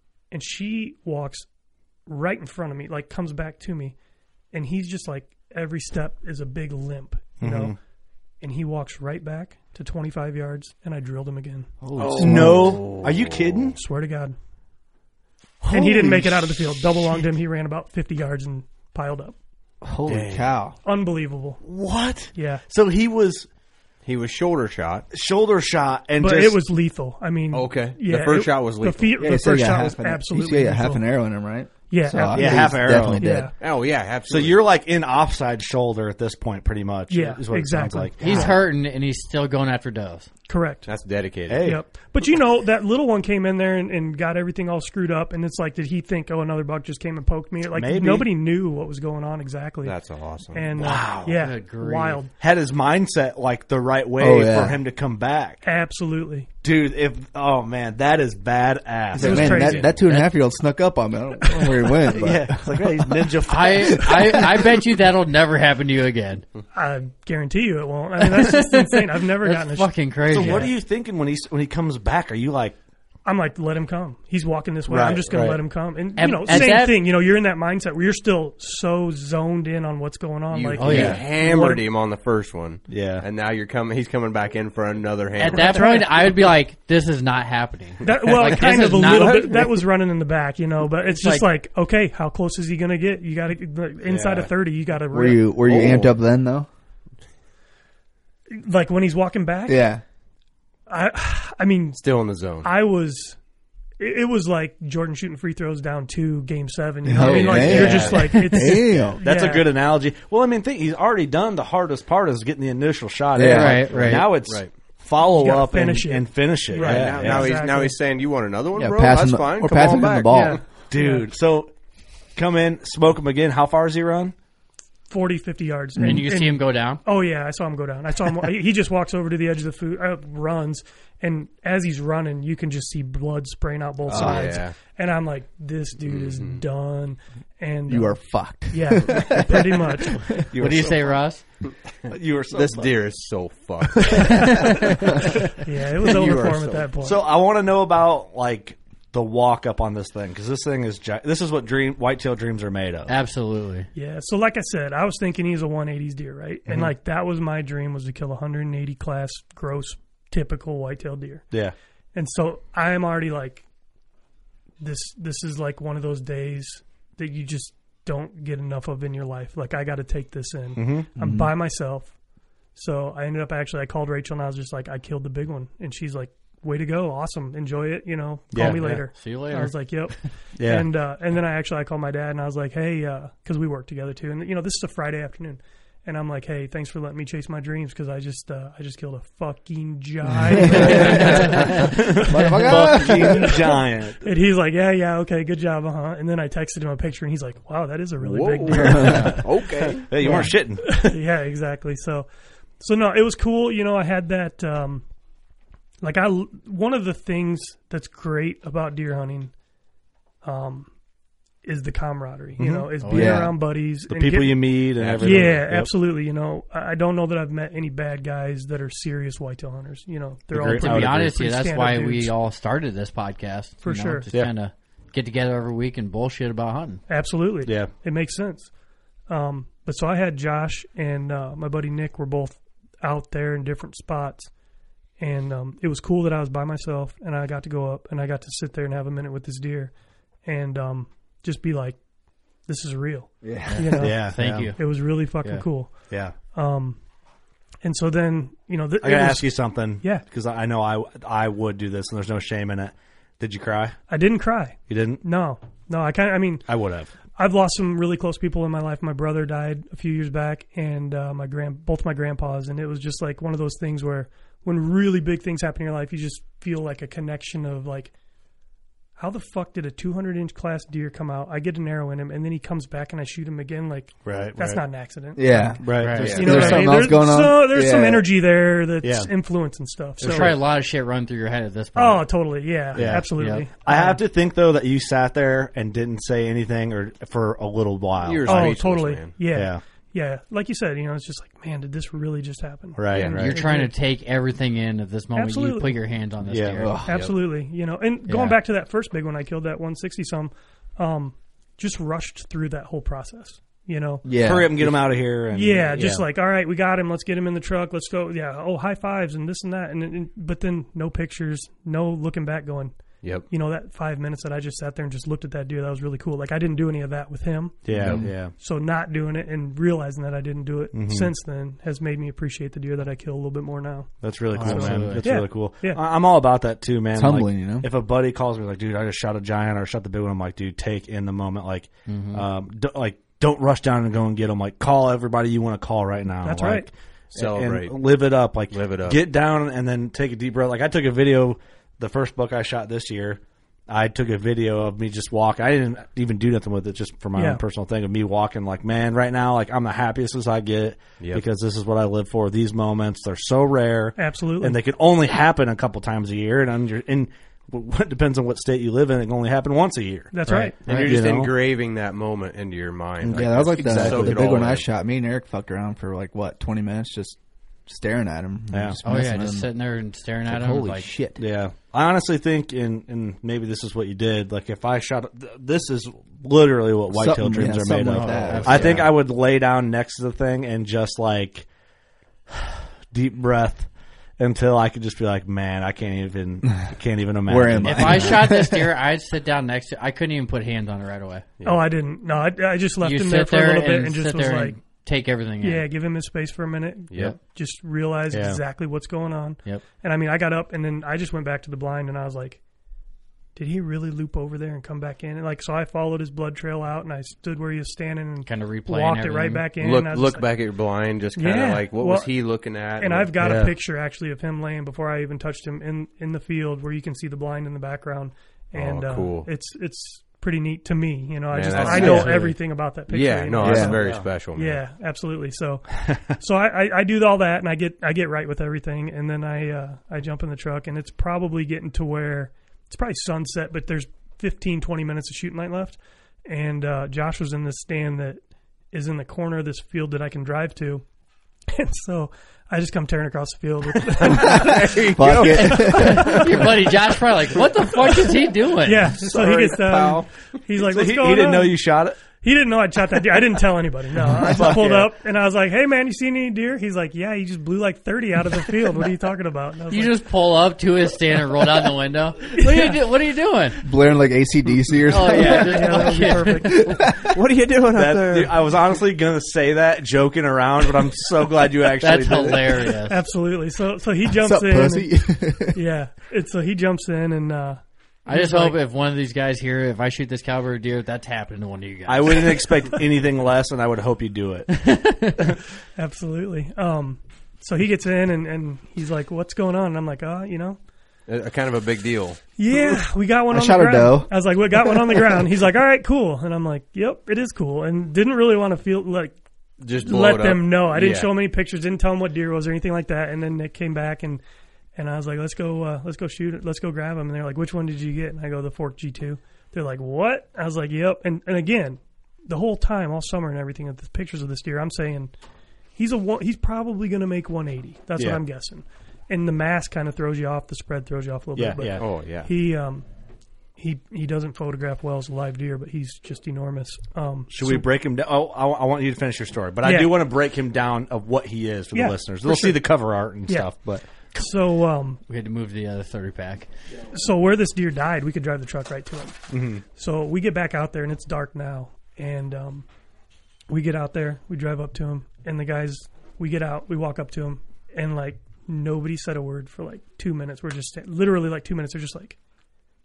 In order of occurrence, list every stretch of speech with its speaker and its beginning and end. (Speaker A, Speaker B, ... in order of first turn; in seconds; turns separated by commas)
Speaker A: 0.3-1.5, Speaker A: 2.1-4.0, Speaker A: 4.5-7.8, Speaker B: 7.4-7.8, Speaker A: 8.4-12.8, Speaker C: 11.8-12.9, Speaker D: 12.0-13.1, Speaker B: 12.2-13.8, Speaker A: 13.8-14.4, Speaker B: 15.7-16.8, Speaker A: 15.7-19.4, Speaker C: 19.8-20.8, Speaker B: 20.1-20.5, Speaker A: 20.8-21.6, Speaker B: 21.6-23.5, Speaker A: 22.4-22.6, Speaker D: 24.0-25.1, Speaker B: 25.1-26.6, Speaker A: 26.2-31.0, Speaker D: 27.5-29.2, Speaker C: 29.2-33.5, Speaker A: 31.9-33.5, Speaker B: 32.3-33.4, Speaker D: 33.6-34.6, Speaker B: 34.3-38.6, Speaker A: 37.1-38.6, Speaker E: 38.2-40.3, Speaker A: 40.5-40.9, Speaker D: 40.9-41.7, Speaker B: 41.5-41.8, Speaker A: 41.6-50.0, Speaker B: 47.7-48.3, Speaker D: 49.8-50.8, Speaker A: 50.5-52.3, Speaker B: 50.8-51.4, Speaker E: 51.4-52.2, Speaker B: 52.4-55.6, Speaker C: 54.2-54.8, Speaker A: 55.6-56.5, Speaker B: 56.6-59.8, Speaker C: 59.1-63.4, Speaker A: 59.2-60.0, Speaker B: 62.1-64.4, Speaker E: 63.5-66.5, Speaker C: 63.9-64.3, Speaker A: 66.7-70.7, Speaker E: 68.4-70.7, Speaker B: 70.3-72.8, Speaker A: 73.2-81.8, Speaker B: 74.9-75.6, Speaker E: 76.2-77.0, Speaker D: 80.5-86.0, Speaker E: 80.8-81.2, Speaker B: 80.9-81.2, Speaker B: 82.9-83.3, Speaker E: 85.4-89.7, Speaker A: 85.5-86.4, Speaker A: 88.0-95.5, Speaker D: 89.1-89.7, Speaker E: 91.0-91.5, Speaker B: 94.0-94.5, Speaker C: 95.1-96.7, Speaker D: 95.6-96.1, Speaker A: 98.5-99.9, Speaker C: 99.7-100.0, Speaker A: 100.9-102.0, Speaker D: 102.0-102.7, Speaker A: 102.6-103.4, Speaker A: 104.0-109.7, Speaker C: 107.1-109.2, Speaker D: 107.3-108.1, Speaker E: 107.3-108.2, Speaker B: 109.2-117.5, Speaker C: 113.3-114.1, Speaker E: 113.4-114.3, Speaker D: 113.9-114.8, Speaker A: 115.2-118.0, Speaker D: 116.8-120.6, Speaker C: 118.8-120.6, Speaker A: 120.3-121.3, Speaker B: 120.9-121.7, Speaker B: 122.4-124.3, Speaker A: 125.1-140.4, Speaker C: 126.0-126.2, Speaker E: 126.0-127.0, Speaker D: 134.1-134.8, Speaker C: 134.1-134.6, Speaker D: 136.1-136.6, Speaker C: 137.9-140.2, Speaker B: 140.5-141.2, Speaker E: 140.6-141.4, Speaker D: 141.1-141.7, Speaker B: 142.1-143.0, Speaker D: 142.5-144.6, Speaker A: 144.2-147.2, Speaker D: 146.1-146.9, Speaker B: 147.0-153.1, Speaker E: 153.1-153.9, Speaker A: 153.9-161.5, Speaker A: 162.1-163.7, Speaker A: 164.8-172.2, Speaker B: 170.8-171.1, Speaker C: 171.2-171.5, Speaker A: 172.8-193.6, Speaker B: 178.5-179.0, Speaker E: 179.1-179.7, Speaker B: 180.6-180.9, Speaker C: 190.5-193.6, Speaker B: 190.9-194.2, Speaker A: 194.2-199.4, Speaker D: 198.2-200.1, Speaker C: 198.8-199.3, Speaker B: 199.0-201.1, Speaker A: 200.2-202.3, Speaker A: 202.8-205.1, Speaker A: 206.0-209.5, Speaker A: 210.4-210.9, Speaker A: 211.6-222.3, Speaker B: 212.6-212.9, Speaker E: 213.0-213.4, Speaker C: 213.1-213.6, Speaker B: 214.1-215.9, Speaker D: 215.0-215.7, Speaker B: 220.5-221.3, Speaker E: 220.7-227.0, Speaker A: 223.8-224.3, Speaker A: 227.1-228.7, Speaker B: 227.7-227.9, Speaker A: 229.3-234.5, Speaker A: 235.2-239.9, Speaker A: 240.4-242.0, Speaker A: 242.7-247.0, Speaker C: 243.4-244.0, Speaker E: 243.7-245.7, Speaker B: 244.0-244.7, Speaker A: 247.8-250.2, Speaker B: 249.0-254.0, Speaker A: 254.1-256.7, Speaker B: 254.9-255.2, Speaker B: 256.7-257.1, Speaker A: 257.4-268.1, Speaker A: 269.2-280.6, Speaker B: 274.2-274.8, Speaker C: 275.4-278.3, Speaker B: 275.8-276.8, Speaker E: 275.9-276.9, Speaker B: 279.0-279.3, Speaker E: 280.2-282.2, Speaker B: 280.2-280.6, Speaker A: 282.0-284.2, Speaker B: 282.9-283.3, Speaker E: 283.0-283.7, Speaker B: 283.9-288.8, Speaker D: 288.2-289.4, Speaker A: 288.5-293.9, Speaker B: 289.4-289.8, Speaker B: 293.0-293.5, Speaker D: 293.1-293.5, Speaker E: 293.3-297.0, Speaker A: 295.4-296.0, Speaker B: 296.5-296.8, Speaker C: 296.8-297.2, Speaker A: 297.1-304.2, Speaker D: 297.1-297.3, Speaker E: 298.3-298.6, Speaker C: 304.2-305.0, Speaker B: 304.4-306.3, Speaker A: 305.5-313.0, Speaker D: 313.2-313.5, Speaker A: 313.5-317.9, Speaker B: 317.9-318.5, Speaker D: 318.0-318.4, Speaker A: 318.5-326.0, Speaker B: 320.9-321.3, Speaker B: 324.2-361.5, Speaker E: 324.5-325.2, Speaker C: 327.1-327.9, Speaker E: 332.1-332.4, Speaker A: 336.4-336.9, Speaker D: 337.3-338.0, Speaker D: 338.7-339.2, Speaker A: 347.4-347.6, Speaker A: 354.2-354.8, Speaker A: 360.3-360.8, Speaker E: 360.5-361.1, Speaker D: 360.8-364.9, Speaker B: 363.2-364.6, Speaker C: 363.3-369.7, Speaker B: 368.7-369.0, Speaker E: 369.0-371.1, Speaker C: 370.5-371.4, Speaker B: 371.4-381.7, Speaker C: 377.1-379.1, Speaker E: 378.1-379.1, Speaker B: 382.5-383.9, Speaker B: 384.4-388.4, Speaker C: 387.5-388.9, Speaker E: 387.8-391.5, Speaker A: 391.6-394.8, Speaker E: 393.0-395.9, Speaker A: 395.6-402.6, Speaker D: 397.1-397.4, Speaker B: 398.3-398.6, Speaker A: 403.6-410.5, Speaker E: 408.5-409.7, Speaker D: 409.8-413.4, Speaker A: 411.4-412.3, Speaker A: 413.0-438.4, Speaker B: 413.4-413.7, Speaker D: 418.8-419.5, Speaker D: 421.5-422.5, Speaker B: 421.8-422.1, Speaker C: 421.8-422.3, Speaker D: 423.1-424.8, Speaker C: 423.6-424.0, Speaker B: 423.9-424.3, Speaker A: 438.9-441.0, Speaker A: 441.7-444.9, Speaker D: 444.4-446.0, Speaker C: 444.4-446.4, Speaker E: 445.5-449.2, Speaker A: 448.8-451.8, Speaker D: 449.2-450.3, Speaker B: 450.8-452.2, Speaker A: 452.4-460.2, Speaker B: 454.3-455.1, Speaker E: 459.9-463.8, Speaker A: 462.6-463.0, Speaker C: 463.8-467.4, Speaker E: 465.1-466.9, Speaker A: 465.2-466.9, Speaker D: 467.1-468.6, Speaker B: 467.9-472.9, Speaker E: 472.0-473.2, Speaker A: 473.1-475.1, Speaker C: 474.3-475.8, Speaker A: 475.7-478.8, Speaker E: 478.3-482.7, Speaker B: 482.1-484.7, Speaker E: 484.8-485.4, Speaker A: 486.0-490.8, Speaker D: 491.3-492.4, Speaker A: 492.6-499.4, Speaker C: 493.5-494.9, Speaker D: 499.8-501.3, Speaker A: 500.0-504.4, Speaker A: 505.0-515.3, Speaker A: 516.0-523.1, Speaker B: 521.6-522.0, Speaker D: 522.0-522.5, Speaker A: 523.8-527.9, Speaker B: 527.5-534.0, Speaker A: 529.8-530.1, Speaker A: 531.9-532.8, Speaker A: 534.3-535.2, Speaker E: 535.3-536.7, Speaker A: 537.1-539.4, Speaker B: 539.5-539.8, Speaker A: 540.0-542.9, Speaker A: 543.7-552.4